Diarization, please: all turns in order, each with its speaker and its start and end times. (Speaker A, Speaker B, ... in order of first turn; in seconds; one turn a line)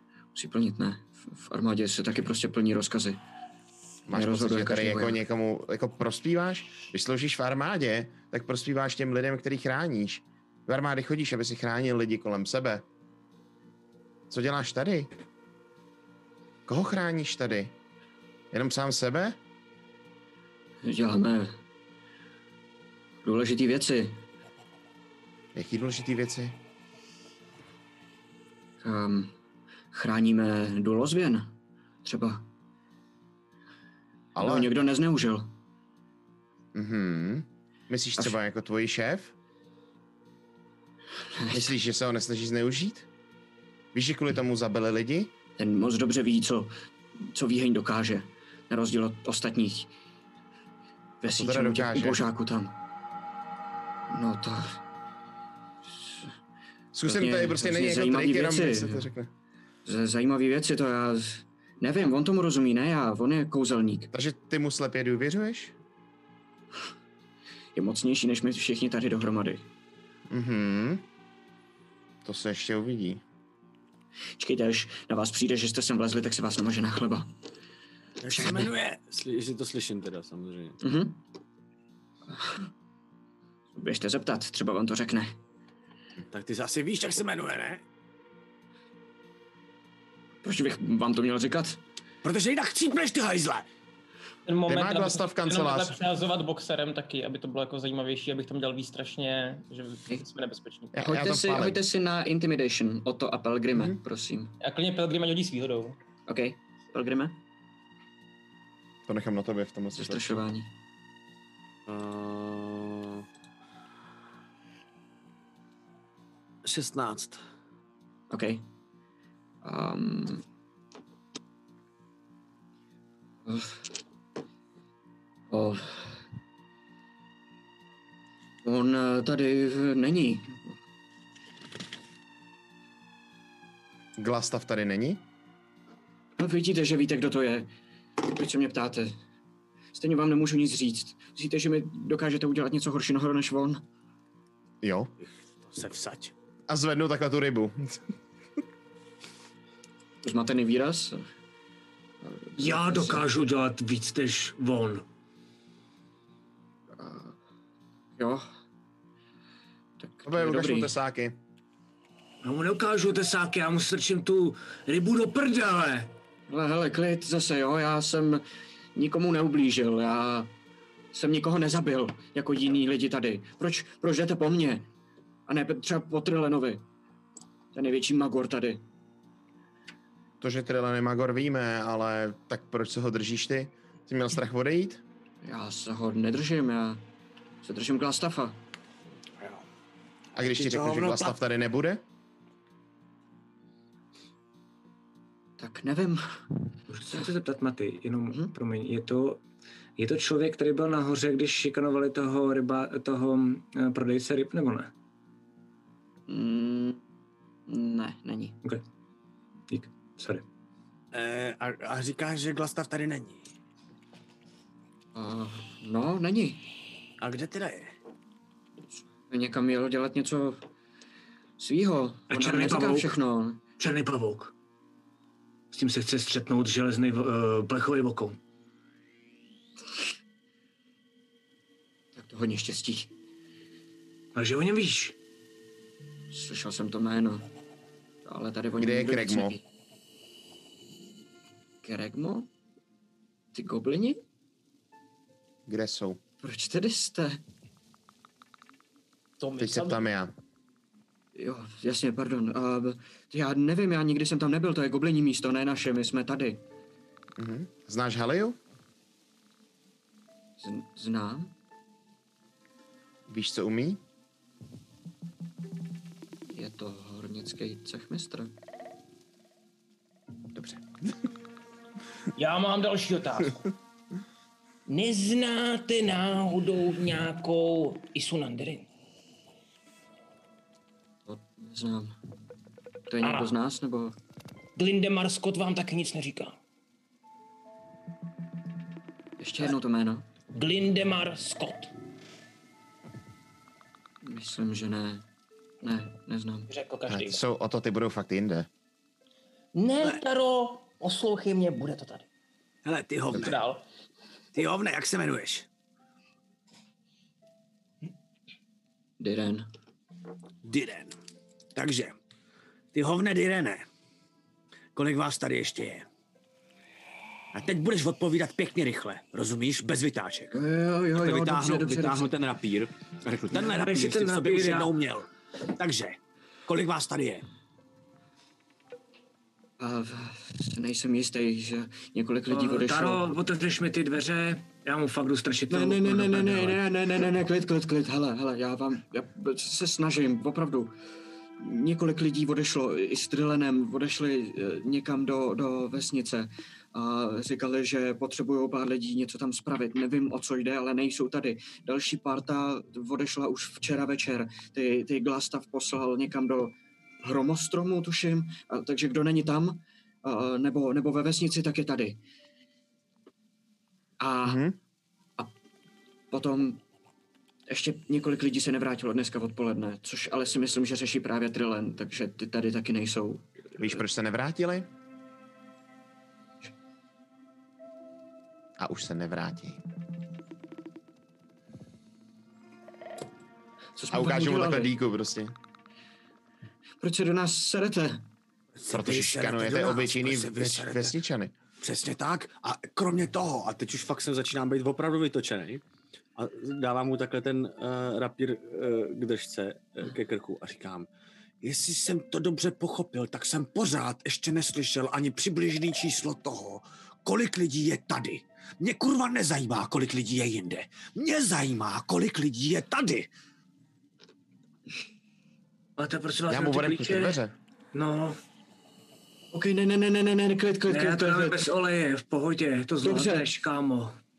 Speaker A: 0.3-3.2
Speaker B: 4.1-12.8
Speaker A: 4.1-5.2
Speaker B: 14.3-15.1
Speaker B: 16.7-17.8
Speaker B: 18.5-19.4
Speaker A: 20.8-21.6
Speaker A: 23.2-24.2
Speaker B: 25.5-26.6
Speaker A: 28.8-29.3
Speaker A: 29.9-31.5
Speaker A: 32.0-32.5
Speaker B: 34.3-34.7
Speaker A: 34.4-35.5
Speaker B: 36.7-39.3
Speaker A: 41.3-41.7
Speaker B: 41.5-43.1
Speaker B: 43.9-45.3
Speaker A: 45.6-49.9
Speaker A: 51.2-52.8
Speaker B: 51.2-52.2
Speaker A: 54.1-54.8
Speaker B: 56.9-59.3
Speaker A: 57.0-59.1
Speaker A: 59.9-64.1
Speaker B: 64.1-65.8
Speaker A: 67.8-69.7
Speaker B: 70.3-71.0
Speaker B: 72.2-73.2
Speaker A: 74.4-77.3
Speaker C: 78.2-80.8
Speaker A: 78.4-78.7
Speaker A: 80.8-81.2
Speaker A: 82.3-82.7
Speaker A: 83.8-85.3
Speaker C: 86.3-87.8
Speaker A: 90.4-91.8
Speaker C: 92.2-93.7
Speaker D: 94.5-100.9
Speaker B: 94.7-96.0
Speaker B: 100.9-101.8
Speaker A: 101.0-104.5
Speaker D: 104.6-106.0
Speaker A: 106.3-107.4
Speaker B: 109.1-110.4
Speaker A: 109.9-110.7
Speaker C: 111.9-113.2
Speaker C: 116.6-117.4
Speaker A: 118.3-118.6
Speaker A: 119.6-120.4
Speaker A: 123.5-123.8
Speaker A: 125.5-126.2
Speaker A: 128.6-130.7
Speaker B: 134.2-135.2
Speaker A: 136.4-137.7
Speaker A: 138.2-139.2
Speaker A: 139.9-143.8
Speaker B: 144.8-145.1
Speaker C: 145.2-146.3
Speaker B: 146.7-148.0
Speaker A: 150.2-151.2
Speaker A: 152.2-153.2
Speaker E: 152.6-155.1
Speaker A: 156.9-157.3
Speaker A: 158.2-158.4
Speaker A: 160.0-160.9
Speaker B: 160.2-161.4
Speaker E: 162.4-166.1
Speaker A: 166.5-168.4
Speaker A: 168.9-170.5
Speaker A: 171.1-174.9
Speaker A: 175.5-176.8
Speaker A: 177.7-178.8
Speaker B: 180.4-185.0
Speaker A: 185.4-187.0
Speaker A: 187.6-188.6
Speaker C: 189.4-189.6
Speaker B: 190.3-192.0
Speaker C: 190.4-191.3
Speaker A: 195.6-196.2
Speaker E: 196.9-199.4
Speaker E: 200.0-204.9
Speaker A: 206.3-207.0
Speaker A: 207.7-208.6
Speaker E: 209.7-210.4
Speaker C: 211.1-213.5
Speaker A: 215.1-216.6
Speaker C: 217.2-217.9
Speaker A: 219.3-220.6
Speaker A: 221.6-223.6
Speaker E: 222.3-223.2
Speaker E: 223.8-224.5
Speaker E: 225.7-228.4
Speaker A: 232.1-233.1
Speaker E: 234.3-235.1
Speaker A: 236.3-237.4
Speaker A: 238.2-239.6
Speaker B: 238.8-239.6
Speaker A: 241.8-242.5
Speaker A: 243.5-244.2
Speaker B: 245.7-246.2
Speaker A: 246.4-247.4
Speaker D: 249.4-250.0
Speaker B: 249.6-250.3
Speaker A: 251.3-256.6
Speaker B: 257.4-258.6
Speaker A: 260.6-261.5
Speaker B: 263.3-264.0
Speaker A: 266.5-268.5
Speaker B: 270.5-271.1
Speaker D: 272.4-273.6
Speaker D: 276.5-278.8
Speaker A: 281.3-282.1
Speaker A: 283.1-284.1
Speaker A: 289.4-290.2
Speaker D: 290.5-291.9
Speaker A: 294.2-295.2
Speaker A: 295.8-296.7
Speaker D: 296.7-297.4
Speaker B: 297.1-298.7
Speaker D: 299.8-302.2
Speaker C: 302.8-303.6
Speaker D: 303.4-303.8
Speaker C: 304.5-305.6
Speaker A: 309.2-309.7
Speaker C: 310.6-311.1
Speaker C: 311.8-312.2
Speaker C: 312.9-313.9
Speaker C: 314.9-316.1
Speaker C: 317.5-320.6
Speaker A: 320.5-322.3
Speaker C: 321.1-327.4
Speaker E: 323.5-324.9
Speaker A: 329.8-333.3
Speaker E: 332.5-336.8
Speaker A: 335.7-340.9
Speaker A: 341.6-362.2
Speaker A: 364.2-364.6
Speaker B: 364.4-364.8
Speaker A: 366.3-366.8
Speaker A: 367.7-374.0
Speaker B: 373.8-374.9
Speaker B: 378.8-379.8
Speaker A: 384.0-384.9
Speaker B: 384.1-385.5
Speaker A: 387.0-388.2
Speaker C: 388.8-391.2
Speaker B: 388.9-391.5
Speaker C: 391.8-395.8
Speaker C: 396.4-401.1
Speaker C: 401.6-413.3
Speaker E: 416.0-417.4
Speaker B: 416.5-417.5
Speaker E: 417.9-418.4
Speaker A: 419.5-421.6
Speaker E: 420.9-424.1
Speaker A: 423.0-423.5